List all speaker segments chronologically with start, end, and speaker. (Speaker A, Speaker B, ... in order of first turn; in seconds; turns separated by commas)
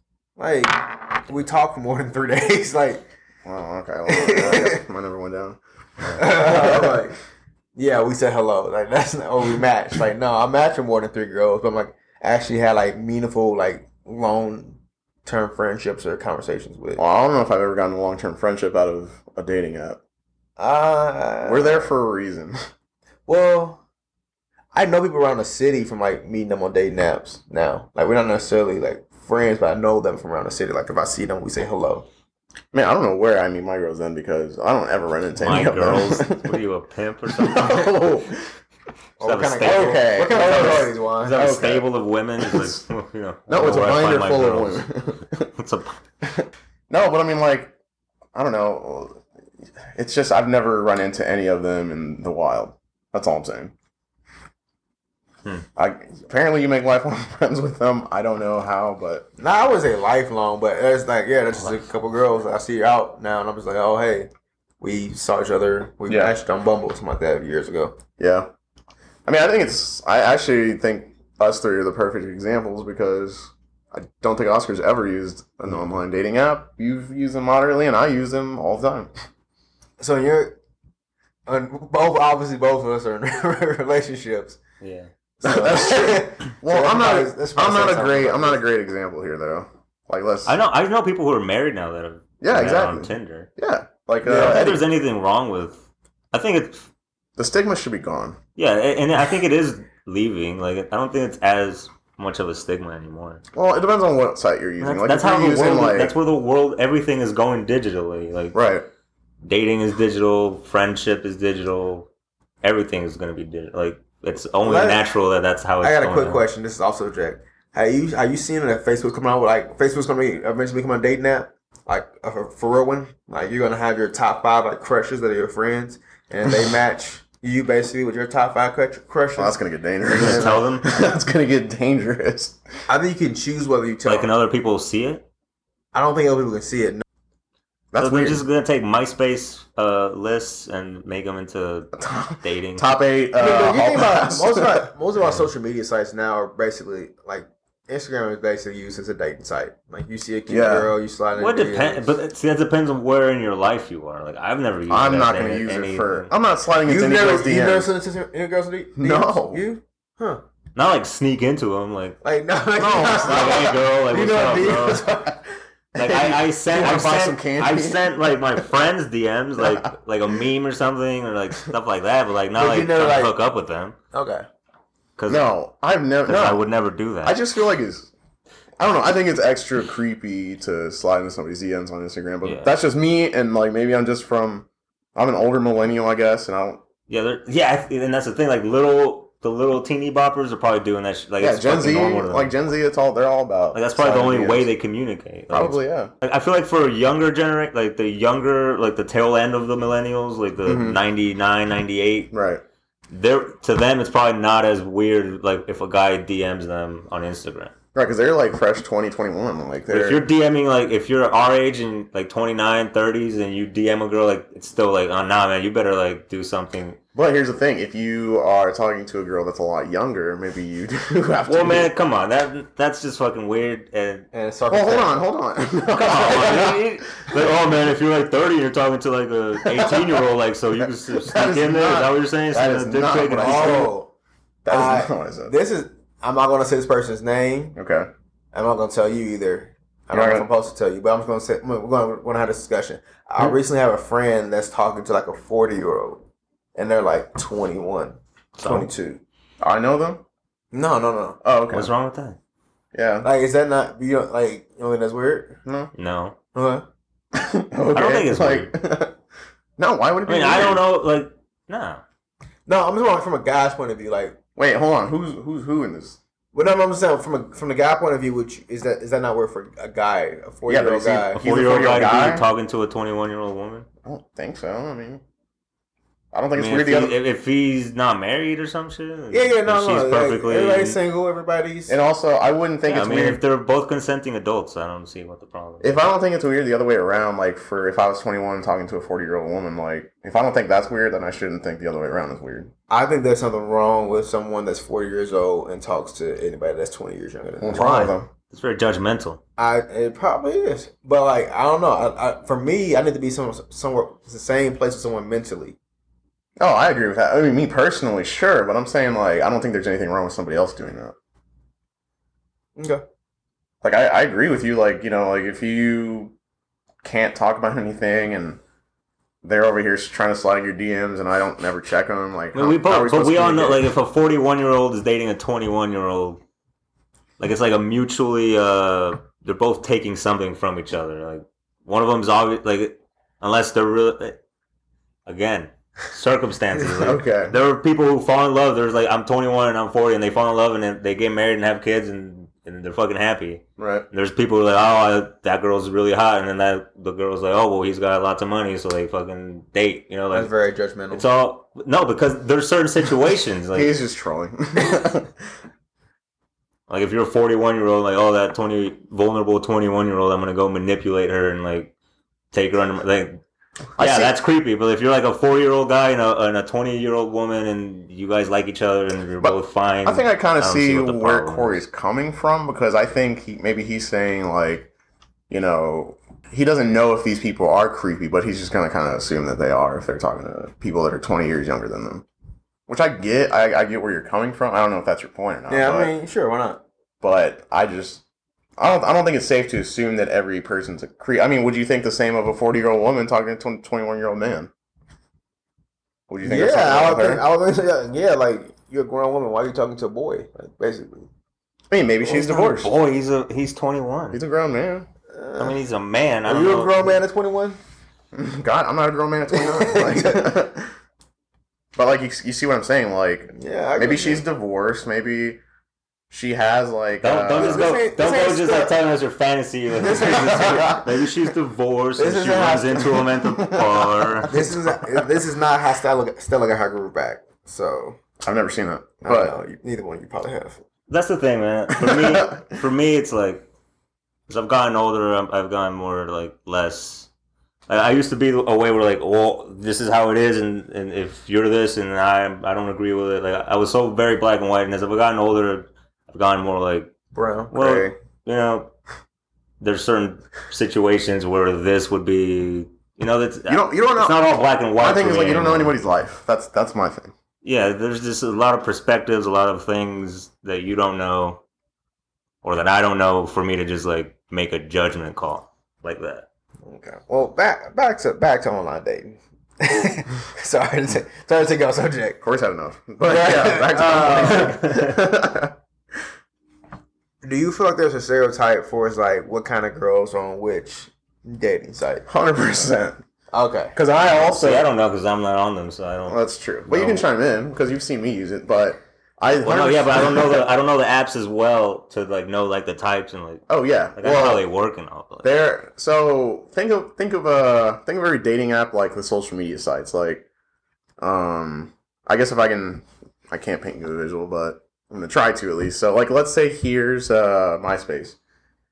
Speaker A: 0.4-3.1, Speaker B: 3.4-7.0, Speaker A: 4.1-4.8, Speaker A: 6.2-7.2, Speaker A: 7.8-17.0, Speaker B: 17.0-20.0, Speaker A: 20.6-21.9, Speaker B: 21.4-22.6, Speaker A: 23.3-23.8, Speaker A: 24.7-32.0, Speaker B: 32.7-36.6, Speaker C: 35.4-37.9, Speaker B: 37.4-38.5, Speaker A: 39.2-41.4, Speaker C: 39.2-44.9, Speaker B: 39.6-41.9, Speaker B: 42.4-42.8, Speaker B: 43.5-45.5, Speaker C: 45.5-45.9, Speaker B: 46.4-47.7, Speaker B: 48.3-49.2, Speaker B: 49.9-53.7, Speaker B: 55.8-59.3, Speaker A: 59.4-64.3, Speaker A: 64.8-68.0, Speaker B: 66.1-66.3, Speaker B: 68.2-68.5, Speaker B: 69.2-79.1, Speaker A: 80.0-80.6, Speaker A: 81.5-84.6, Speaker C: 84.8-85.1, Speaker A: 85.4-88.6, Speaker B: 85.4-90.6, Speaker C: 90.5-93.5, Speaker B: 92.4-94.9, Speaker C: 94.2-96.8, Speaker A: 94.2-94.7, Speaker B: 97.4-98.4, Speaker C: 98.5-103.4, Speaker B: 103.5-106.1, Speaker C: 104.8-108.5, Speaker B: 108.5-108.8, Speaker C: 109.4-112.1, Speaker C: 112.6-116.4, Speaker A: 114.6-115.1, Speaker A: 115.8-129.6, Speaker B: 129.3-132.6, Speaker C: 130.1-130.8, Speaker A: 130.1-130.6, Speaker A: 132.9-134.3, Speaker C: 134.0-135.2, Speaker A: 135.9-137.0, Speaker B: 137.9-138.4, Speaker C: 138.0-142.9, Speaker B: 141.9-144.9, Speaker A: 143.4-152.1, Speaker B: 150.5-150.9, Speaker C: 151.3-156.3, Speaker B: 154.9-157.9, Speaker A: 156.8-160.4, Speaker B: 159.0-159.6, Speaker C: 160.7-162.2, Speaker A: 162.2-165.3, Speaker B: 162.8-163.8, Speaker C: 163.1-165.0, Speaker B: 165.9-168.2, Speaker C: 165.9-173.9, Speaker B: 169.6-169.9, Speaker A: 172.5-173.3, Speaker A: 174.1-174.4, Speaker C: 175.2-175.5, Speaker B: 175.3-176.6, Speaker C: 176.2-177.4, Speaker B: 177.2-178.1, Speaker B: 178.8-186.8, Speaker C: 182.4-182.7, Speaker C: 187.1-192.5, Speaker B: 191.4-194.7, Speaker C: 193.7-202.3, Speaker B: 195.5-196.1, Speaker B: 200.7-201.0, Speaker B: 202.3-202.6, Speaker C: 203.1-207.7, Speaker B: 207.9-210.2, Speaker C: 209.9-217.0, Speaker B: 217.1-221.9, Speaker C: 221.5-224.3, Speaker A: 224.3-225.3, Speaker B: 224.7-227.5, Speaker C: 225.9-233.9, Speaker B: 229.6-230.2, Speaker B: 230.8-233.9, Speaker A: 233.4-234.1, Speaker B: 234.6-235.5, Speaker A: 234.7-237.7, Speaker B: 237.8-238.1, Speaker A: 238.5-246.2, Speaker B: 240.1-240.5, Speaker A: 246.7-249.2, Speaker C: 248.6-248.9, Speaker B: 249.6-250.2, Speaker A: 250.7-251.4, Speaker B: 251.4-251.9, Speaker C: 251.7-252.4, Speaker B: 252.9-253.3, Speaker A: 253.2-255.6, Speaker B: 255.6-255.9, Speaker C: 255.9-256.4, Speaker A: 256.5-256.8, Speaker B: 257.3-259.2, Speaker C: 257.9-258.7, Speaker B: 259.8-260.9, Speaker C: 260.2-262.0, Speaker A: 262.7-264.4, Speaker B: 264.6-266.2, Speaker A: 266.5-271.4, Speaker B: 270.7-272.4, Speaker C: 271.4-273.9, Speaker B: 274.0-275.2, Speaker B: 276.3-277.2, Speaker C: 276.5-281.0, Speaker A: 279.3-281.9, Speaker B: 281.9-283.4, Speaker C: 282.9-286.0, Speaker B: 285.8-292.7, Speaker A: 292.9-298.1, Speaker B: 297.6-298.3, Speaker C: 298.5-299.4, Speaker A: 299.6-305.8, Speaker B: 306.6-311.1, Speaker A: 312.8-313.0, Speaker B: 313.8-316.3, Speaker B: 317.0-318.6, Speaker B: 319.4-323.9, Speaker C: 322.5-326.4, Speaker C: 327.4-334.4, Speaker C: 335.2-350.5, Speaker B: 337.0-337.6, Speaker B: 343.8-344.1, Speaker A: 350.3-351.2, Speaker C: 351.1-353.9, Speaker B: 353.7-355.3, Speaker C: 356.9-361.9, Speaker C: 362.5-363.4, Speaker B: 364.0-364.4, Speaker C: 364.0-371.8, Speaker B: 369.4-374.9, Speaker B: 375.5-382.2, Speaker B: 382.9-386.1, Speaker A: 385.7-386.8, Speaker B: 387.2-388.2, Speaker B: 388.8-394.7, Speaker B: 396.3-397.4, Speaker A: 396.4-401.3, Speaker B: 401.9-402.9, Speaker C: 402.2-404.4, Speaker B: 404.3-405.1, Speaker A: 405.3-405.8, Speaker C: 405.6-407.1, Speaker A: 406.4-407.8, Speaker B: 408.3-410.9, Speaker A: 409.6-410.5, Speaker B: 411.9-415.6, Speaker A: 413.5-414.4, Speaker B: 416.3-418.0, Speaker C: 417.2-424.5, Speaker A: 417.6-418.9, Speaker A: 420.0-421.0, Speaker B: 420.2-421.1, Speaker A: 422.2-423.2, Speaker B: 423.4-425.2, Speaker A: 424.5-428.2, Speaker B: 428.4-429.6, Speaker A: 429.2-430.8, Speaker C: 431.1-433.7, Speaker B: 431.9-432.7, Speaker C: 434.5-437.3, Speaker C: 437.9-447.1, Speaker A: 447.3-448.1, Speaker C: 447.7-448.9, Speaker C: 449.8-455.9, Speaker B: 453.7-457.3, Speaker C: 457.6-461.6, Speaker C: 462.6-466.4, Speaker A: 466.8-472.4, Speaker B: 472.4-475.7, Speaker A: 473.2-474.8, Speaker C: 474.4-475.1, Speaker A: 477.4-482.2, Speaker B: 482.3-483.2, Speaker A: 483.5-483.9, Speaker B: 483.9-484.9, Speaker C: 484.3-487.2, Speaker B: 486.3-490.6, Speaker C: 489.6-493.6, Speaker B: 493.7-494.7, Speaker C: 494.1-495.5, Speaker B: 495.4-500.4, Speaker B: 501.2-508.4